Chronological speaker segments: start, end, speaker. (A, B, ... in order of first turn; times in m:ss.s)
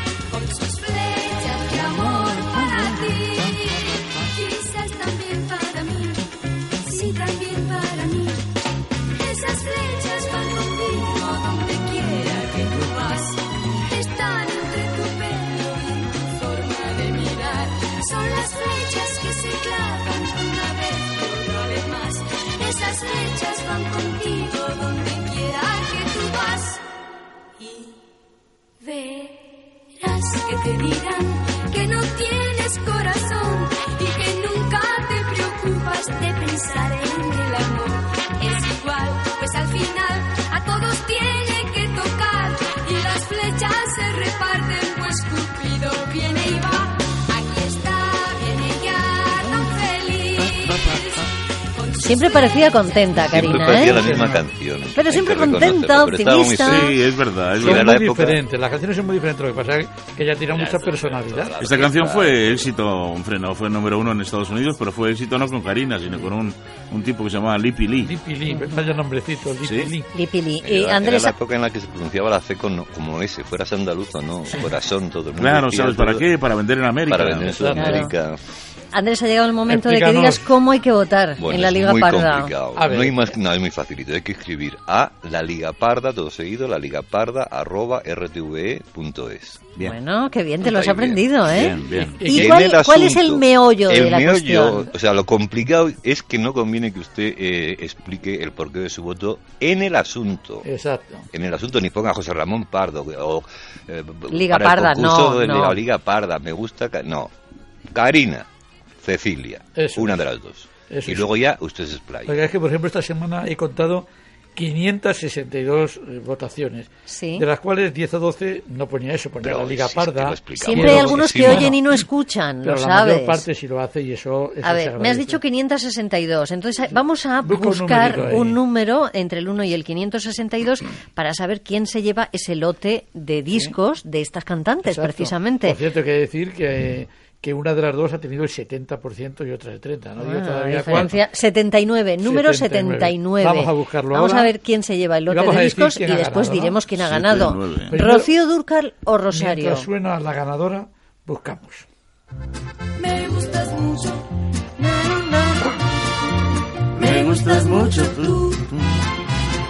0:00.3-0:06.3 A
0:06.8-0:08.5 A
0:09.1-0:26.8 A
0:27.6-0:27.9 A
0:28.8-0:29.4 A
0:30.0-0:52.7 A
0:52.0-0:54.0 B
0:53.2-0:56.9 C
0:53.4-0:54.5 D
0:54.9-0:57.0 B
0:56.6-0:57.8 E
0:57.5-1:01.7 D
0:57.6-0:58.4 C
1:00.5-1:02.7 C
1:01.6-1:08.1 E
1:08.0-1:10.1 D
1:09.6-1:09.9 E
1:10.1-1:11.3 B
1:10.6-1:16.3 C
1:15.3-1:17.5 E
1:17.1-1:18.4 C
1:17.4-1:18.0 D
1:17.7-1:18.1 B
1:18.9-1:22.5 B
1:19.7-1:20.5 D
1:21.4-1:29.6 C
1:22.7-1:23.3 D
1:29.8-1:34.9 B
1:30.6-1:31.3 C
1:31.4-1:32.2 E
1:32.2-1:32.6 D
1:32.3-1:40.7 C
1:40.6-1:41.2 D
1:41.3-1:47.3 C
1:44.3-1:45.8 B
1:47.9-1:48.4 C
1:49.0-1:52.4 C
1:49.7-1:50.2 D
1:50.8-1:51.3 D
1:52.3-2:02.0 D
1:57.1-1:57.4 B
1:59.4-2:01.7 C
2:00.6-2:03.4 B
2:02.6-2:05.4 D
2:04.6-2:15.8 B
2:07.4-2:08.6 D
2:14.8-2:21.2 D
2:20.2-2:29.9 B
2:22.2-2:24.5 D
2:25.3-2:26.8 D
2:26.9-2:28.0 E
2:27.8-2:28.3 D
2:29.3-2:31.8 D
2:33.0-2:34.2 A
2:34.8-2:35.7 A
2:37.0-2:38.6 A
2:37.0-2:38.0 E